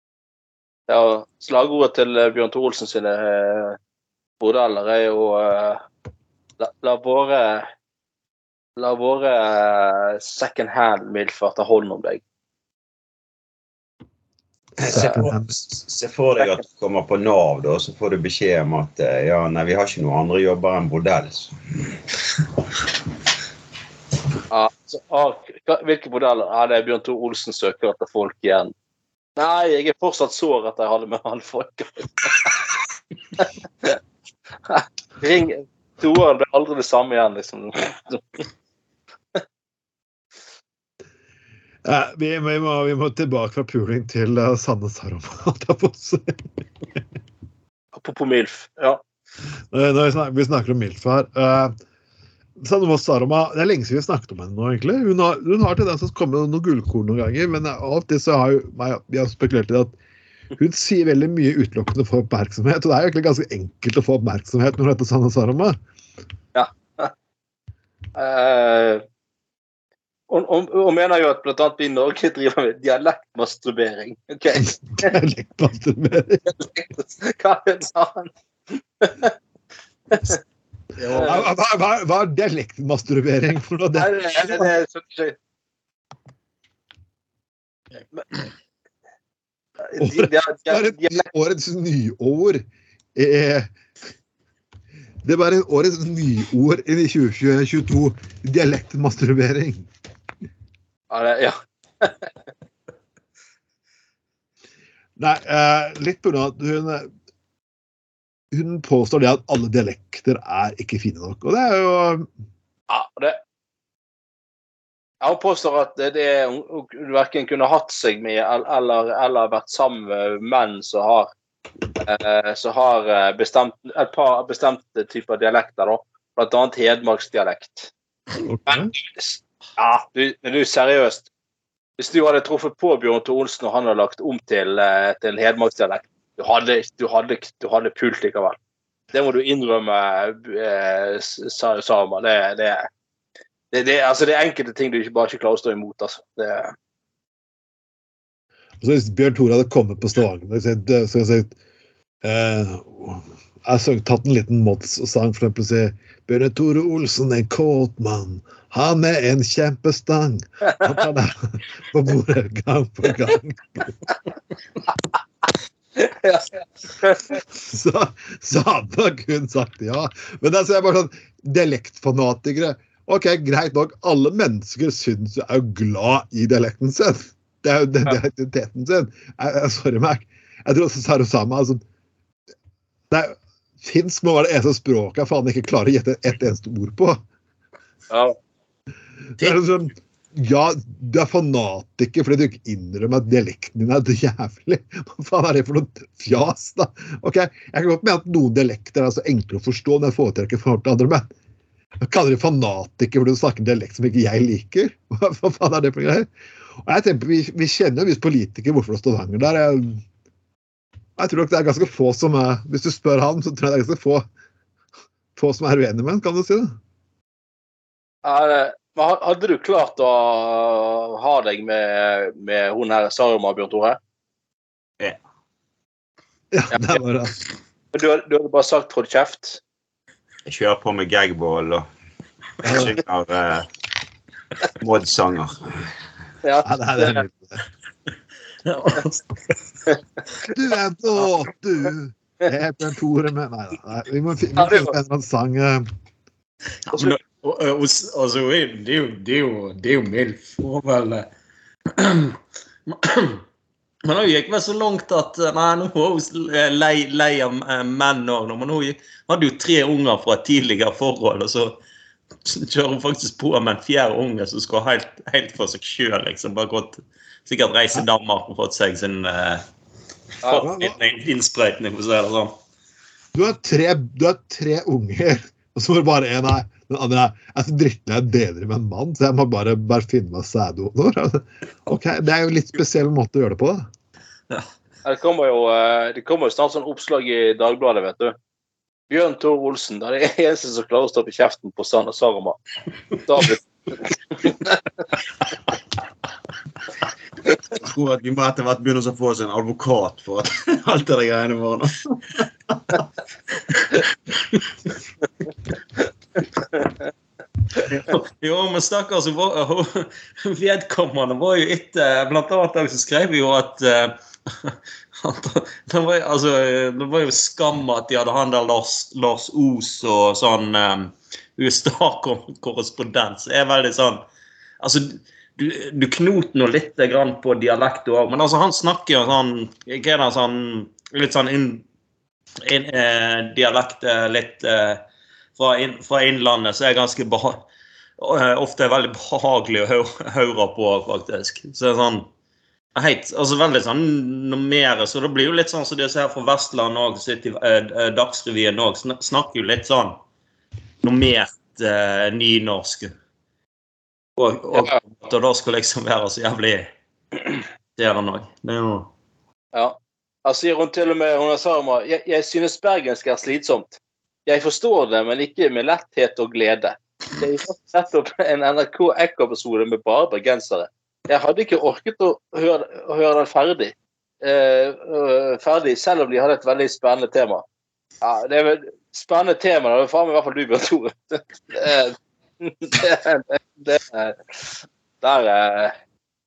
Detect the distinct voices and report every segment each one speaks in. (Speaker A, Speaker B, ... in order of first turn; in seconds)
Speaker A: 0.9-3.8, 4.4-5.8, 6.6-7.7, 8.8-12.2, 24.5-28.7, 29.4-32.5, 33.4-34.0, 34.7-38.4, 48.0-49.0, 66.5-67.1, 68.2-69.0, 70.3-75.1, 76.6-78.3, 79.0-79.3, 81.0-81.5, 84.0-85.4, 89.9-91.3, 101.1-102.3, 112.9-113.4, 115.2-121.3, 122.0-127.9, 128.7-131.3, 132.0-138.6, 139.1-142.9, 143.7-146.7, 166.0-167.4, 188.1-188.4, 218.2-224.0, 227.9-229.6, 236.4-237.2, 244.6-244.9, 285.1-288.4, 289.1-292.6, 293.3-294.8, 354.7-355.0, 359.7-377.6, 378.2-385.9
Speaker B: 14.8-21.5, 230.5-231.9, 232.6-233.7, 234.8-235.7, 297.7-303.0
Speaker C: 14.9-15.5, 41.9-46.4, 49.7-51.7, 52.6-60.0, 60.6-65.8, 74.5-76.5, 81.2-84.7, 90.0-93.7, 95.2-99.9, 105.2-107.1, 108.5-112.3, 128.4-128.9, 148.8-151.6, 152.2-164.0, 167.5-181.8, 183.1-187.2, 189.4-201.3, 202.0-206.3, 206.8-210.0, 211.2-214.2, 215.4-216.8, 226.5-227.4, 232.6-232.9, 236.7-237.6, 240.5-245.9, 270.6-270.9, 273.3-283.9
Speaker D: 238.7-239.6, 246.9-251.3, 251.9-253.4, 254.1-261.8, 262.4-269.6, 270.5-272.6, 307.8-324.3, 324.8-331.9, 332.6-335.0, 335.6-337.7, 338.2-342.3, 342.9-350.2, 351.0-353.1, 354.4-356.9, 358.0-359.1